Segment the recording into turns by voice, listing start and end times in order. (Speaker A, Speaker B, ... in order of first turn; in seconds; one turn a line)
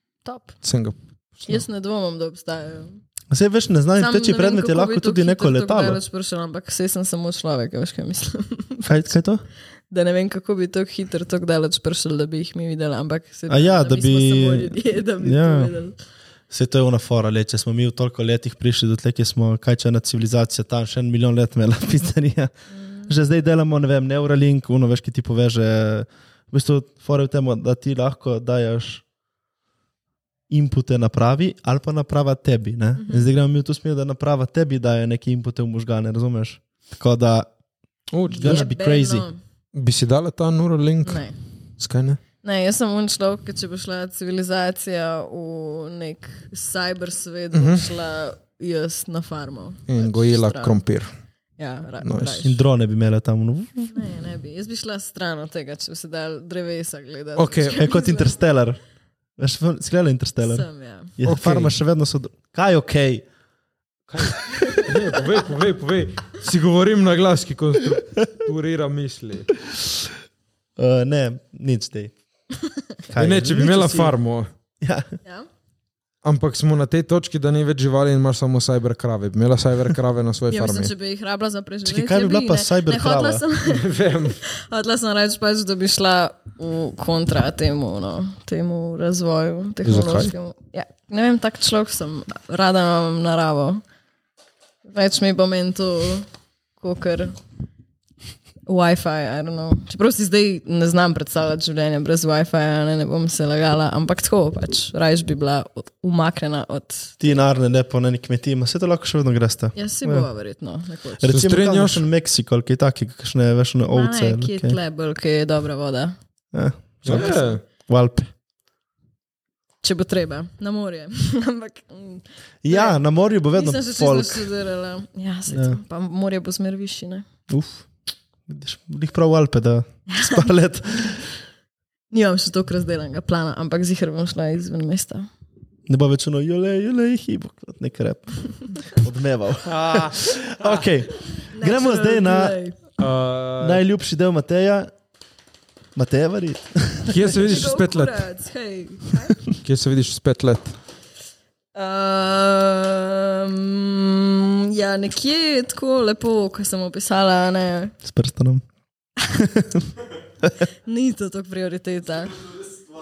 Speaker A: 0.2-0.5
Speaker B: 0.6-1.6
Speaker A: 1.5-3.0
Speaker C: 3.3-6.0
Speaker A: 4.0-9.1
Speaker C: 8.8-9.4
Speaker A: 9.9-16.0
Speaker C: 13.5-15.7
Speaker C: 16.5-22.5
Speaker A: 22.7-23.1
Speaker C: 23.1-29.0
Speaker C: 30.5-37.5
Speaker A: 33.0-33.3
Speaker B: 38.1-38.7
Speaker C: 38.3-39.3
Speaker A: 38.3-39.4
Speaker B: 39.7-41.2
Speaker A: 41.0-41.4
Speaker B: 41.8-42.2
Speaker A: 42.4-50.8
Speaker B: 47.5-47.9
Speaker B: 49.9-51.1
Speaker A: 51.6-52.5
Speaker B: 52.0-52.5
Speaker C: 52.4-54.0
Speaker A: 53.9-58.4
Speaker B: 57.4-57.8
Speaker C: 57.8-58.8
Speaker C: 59.4-63.3
Speaker A: 60.4-61.1
Speaker B: 61.2-61.7
Speaker B: 64.1-69.5
Speaker A: 64.6-64.9
Speaker C: 70.8-72.1
Speaker C: 73.1-74.1
Speaker B: 73.2-74.5
Speaker C: 74.8-75.1
Speaker B: 76.2-80.9
Speaker A: 80.5-83.9
Speaker C: 81.9-83.5
Speaker B: 83.6-84.4
Speaker A: 84.4-93.8
Speaker B: 89.8-90.3
Speaker A: 94.9-96.3
Speaker A: 96.8-97.4
Speaker A: 98.7-107.1
Speaker C: 107.2-110.3
Speaker A: 109.8-111.3
Speaker C: 111.2-114.8
Speaker B: 111.3-112.1
Speaker A: 113.9-116.2
Speaker C: 116.5-118.3
Speaker B: 117.0-117.6
Speaker A: 117.1-117.5
Speaker A: 119.8-123.0
Speaker C: 122.6-124.5
Speaker A: 123.5-127.3
Speaker C: 125.5-125.8
Speaker C: 127.5-127.9
Speaker C: 128.5-131.3
Speaker A: 130.1-130.5
Speaker A: 132.1-135.3
Speaker C: 135.9-142.6
Speaker B: 139.7-140.9
Speaker A: 141.5-142.8
Speaker B: 143.0-143.8
Speaker C: 143.6-144.9
Speaker C: 146.0-147.3
Speaker B: 147.1-148.2
Speaker A: 147.4-149.4
Speaker B: 149.6-150.8
Speaker A: 151.8-157.9
Speaker C: 158.0-158.6
Speaker C: 159.3-159.8
Speaker A: 160.8-162.5